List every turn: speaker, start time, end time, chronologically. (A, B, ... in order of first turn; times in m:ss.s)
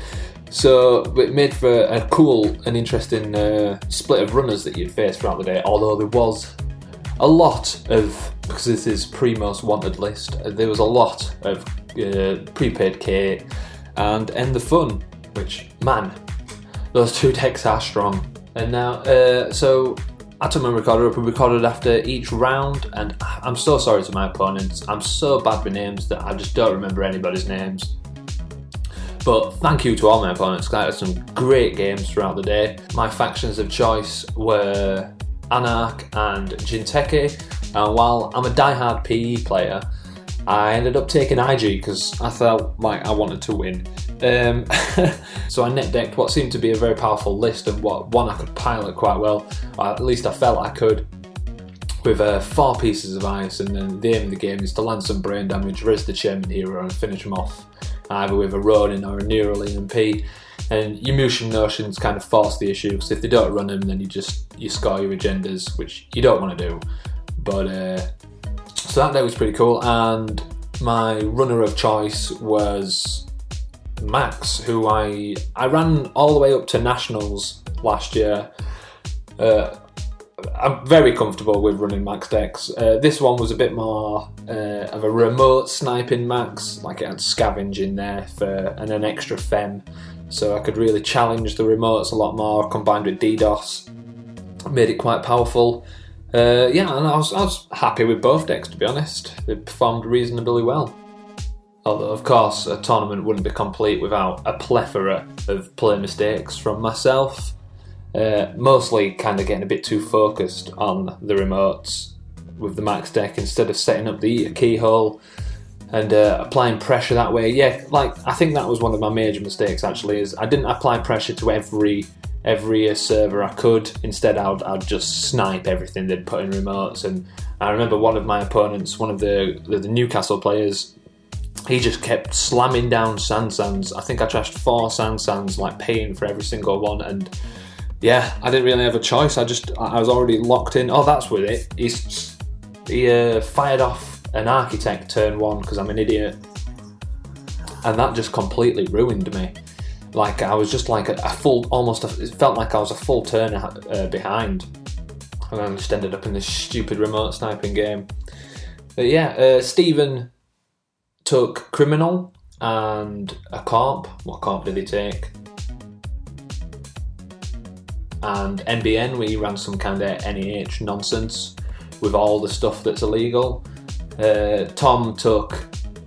0:00.5-0:06.6 A
0:07.2-0:16.2 A
0:16.9-0:27.9 A
0:29.2-0:39.8 A
0:40.5-0:51.1 A
0:52.0-1:06.8 A
1:07.4-1:08.1 A
1:08.8-1:13.3 A
1:14.0-1:18.5 A
1:19.4-1:19.8 A
1:20.4-1:33.9 A
1:34.7-1:41.0 A
1:41.8-1:47.6 A
1:48.1-1:55.2 A
1:55.9-2:10.9 A
2:11.7-2:17.3 A
2:18.0-2:26.4 A
2:27.8-2:29.6 A
2:30.1-2:34.7 A
2:35.5-2:38.1 A
2:39.0-2:40.3 A
2:41.2-2:45.3 A
2:48.2-2:53.6 A
2:54.2-2:55.7 A